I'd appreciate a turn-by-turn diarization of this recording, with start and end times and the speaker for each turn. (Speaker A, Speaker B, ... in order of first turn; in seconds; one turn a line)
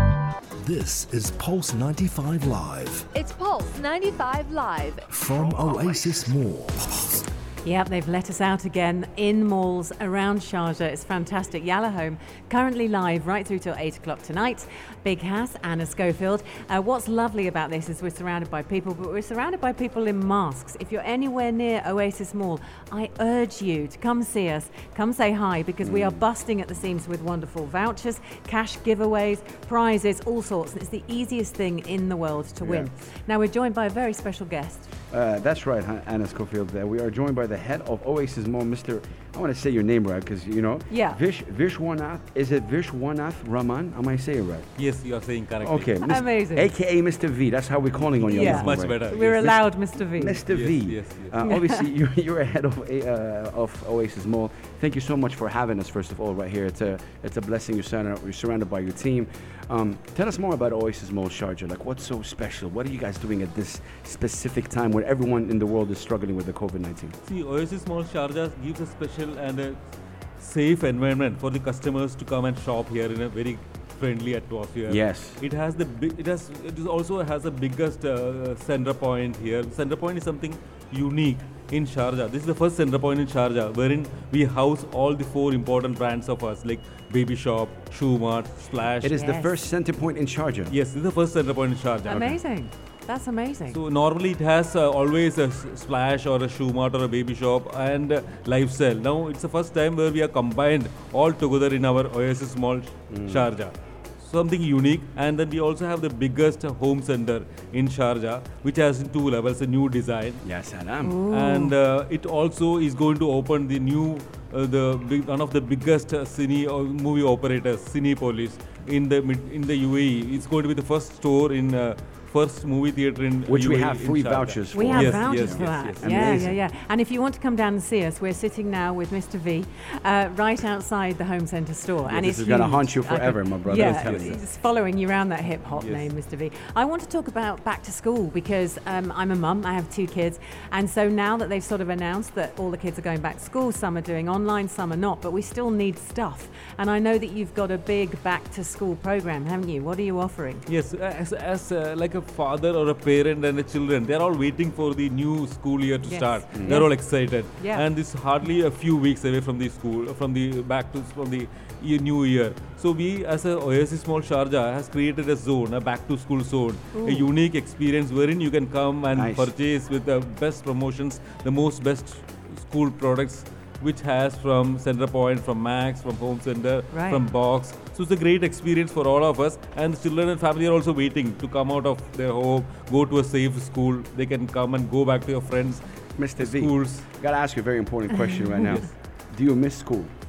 Speaker A: 0.6-3.1
Speaker B: 3.1-5.0
Speaker A: 5.1-7.2
Speaker C: 7.6-34.9
Speaker D: 25.8-26.2
Speaker D: 32.6-32.9
Speaker D: 35.1-44.8
Speaker C: 40.9-41.2
Speaker E: 44.8-46.2
Speaker D: 45.6-67.1
Speaker C: 46.0-46.7
Speaker E: 48.1-49.5
Speaker C: 48.3-50.4
Speaker E: 50.5-51.4
Speaker C: 51.4-51.9
Speaker E: 67.2-69.8
Speaker E: 70.4-89.2
Speaker D: 74.9-75.4
Speaker D: 89.0-90.8
Speaker C: 89.1-89.5
Speaker E: 90.7-92.4
Speaker C: 92.0-93.8
Speaker E: 93.7-110.4
Speaker D: 103.1-103.5
Speaker D: 110.4-111.2
Speaker C: 111.0-111.7
Speaker E: 111.3-126.5
Speaker D: 123.5-126.6
Speaker C: 124.7-150.7
Speaker D: 132.1-134.4
Speaker E: 133.7-134.4
Speaker E: 135.7-136.1
Speaker E: 150.7-185.8
Speaker C: 156.1-157.8
Speaker D: 156.5-156.8
Speaker C: 166.9-167.3
Speaker D: 169.1-169.5
Speaker C: 176.9-177.2
Speaker D: 186.2-190.1
Speaker E: 186.3-187.1
Speaker C: 188.2-188.4